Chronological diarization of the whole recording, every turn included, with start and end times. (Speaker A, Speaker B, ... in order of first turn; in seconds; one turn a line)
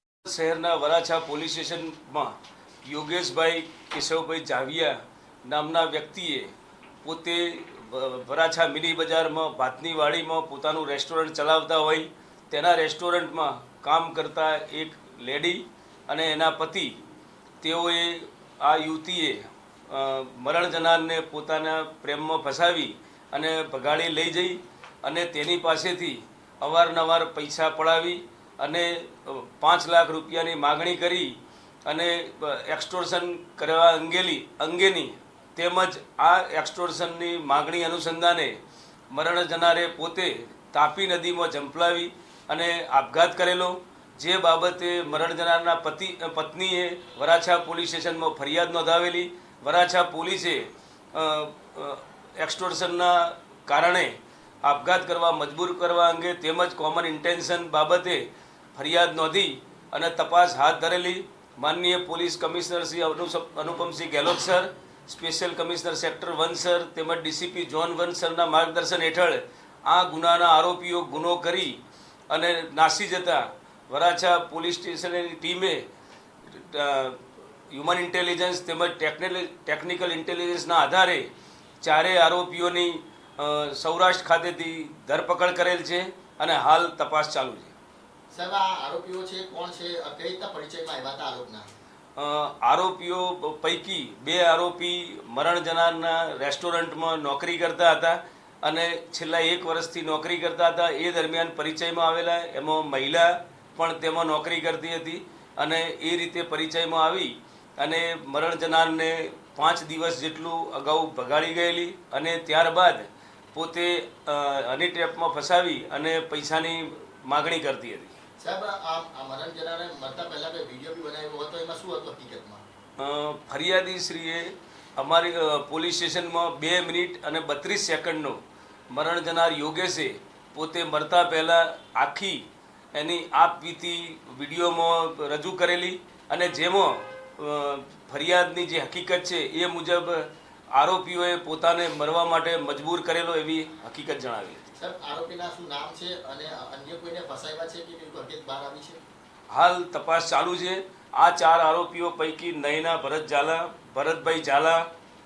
Speaker A: 0.2-6.5
Speaker A: 7.0-17.0
Speaker A: 17.6-38.6
Speaker A: 39.1-58.2
Speaker A: 58.8-71.8
Speaker A: 72.3-75.8
Speaker A: 76.5-77.2
Speaker A: 77.7-81.3
Speaker A: 81.8-87.7
Speaker B: 88.3-91.7
Speaker A: 92.2-118.1
Speaker B: 118.4-122.6
Speaker A: 123.0-144.6
Speaker B: 144.8-149.0
Speaker A: 149.5-154.9